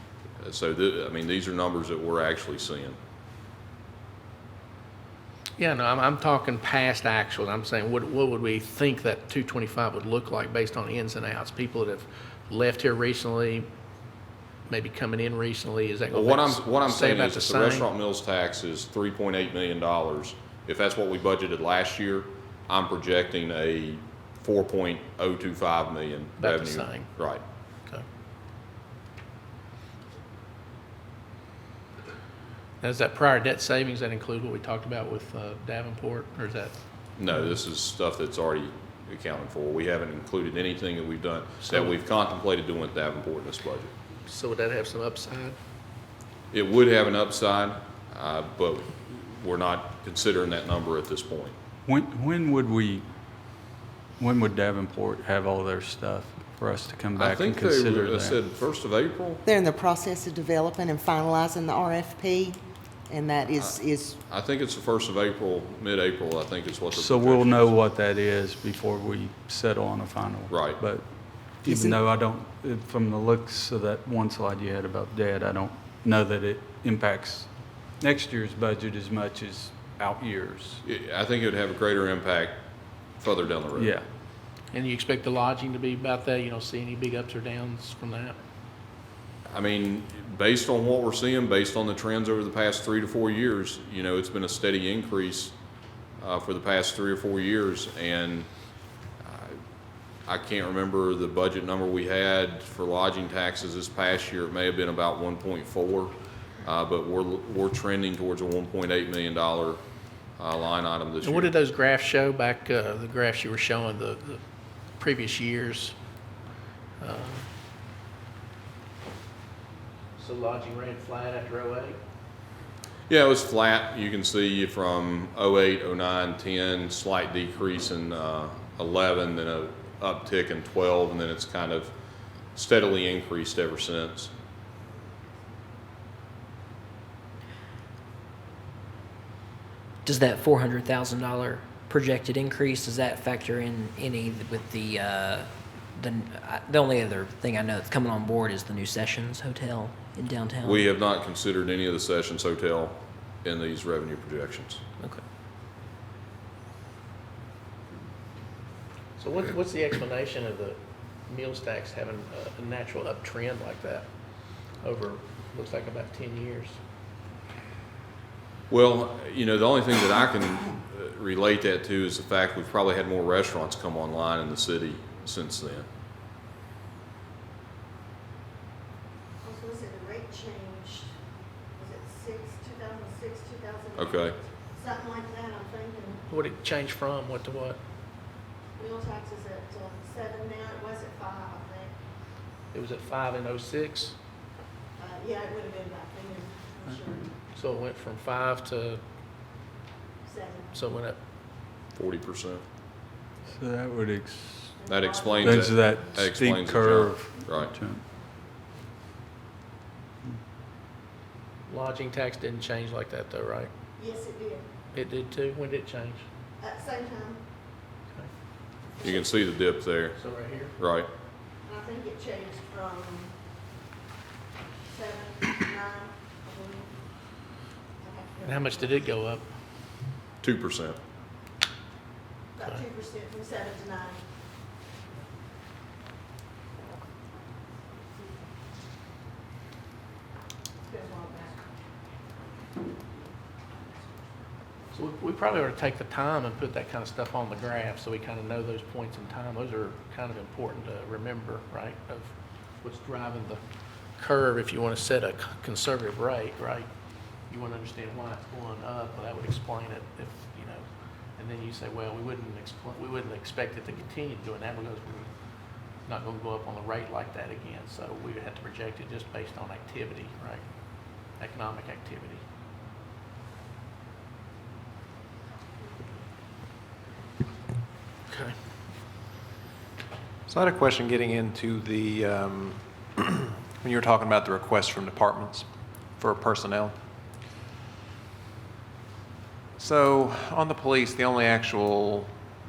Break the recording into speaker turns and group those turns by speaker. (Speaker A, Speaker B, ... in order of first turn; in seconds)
Speaker A: 0.4-3.0, 16.1-27.4, 37.2-43.9, 46.5-51.5, 57.2-59.4, 63.6-67.7, 70.5-70.8, 80.8-82.6, 83.2-83.9, 89.5-95.5, 96.2-98.5, 99.2-99.6, 100.2-109.8, 110.4-111.5, 123.1-131.9, 132.5-134.3, 150.6-154.8, 168.7-175.8, 183.9-184.3, 201.9-202.6, 204.9-207.7, 219.0-220.2, 220.8-221.1, 230.4-231.0
Speaker B: 5.6-13.7, 14.7-17.9, 26.4-27.1, 32.8-36.7, 44.2-45.5, 84.7-88.4, 111.2-114.4, 115.0-115.9, 117.0-117.5, 120.2-122.0, 159.2-164.1, 164.8-166.8, 186.3-187.8, 192.7-194.2, 197.5-199.0, 200.7-201.2, 211.7-213.7, 214.9-216.2, 220.1-220.7, 228.4-229.5, 244.9-253.6, 254.2-256.9, 257.5-260.8, 261.4-265.3, 266.1-270.6, 271.4-272.4
Speaker C: 51.9-53.0, 54.2-58.4, 66.9-80.8, 83.7-84.0, 203.5-204.8, 205.4-208.0
Speaker D: 59.4-64.2, 71.6-72.0
Speaker E: 140.0-150.9
Speaker F: 179.4-181.1, 181.8-186.2, 188.8-191.9, 195.0-197.3, 200.2-200.7, 204.8-205.7, 214.0-214.7, 216.6-217.4, 218.9-219.5, 221.7-223.3, 224.9-226.9, 228.0-229.0, 232.6-234.2, 240.9-241.6
Speaker G: 280.5-285.6, 286.2-286.9, 289.8-292.3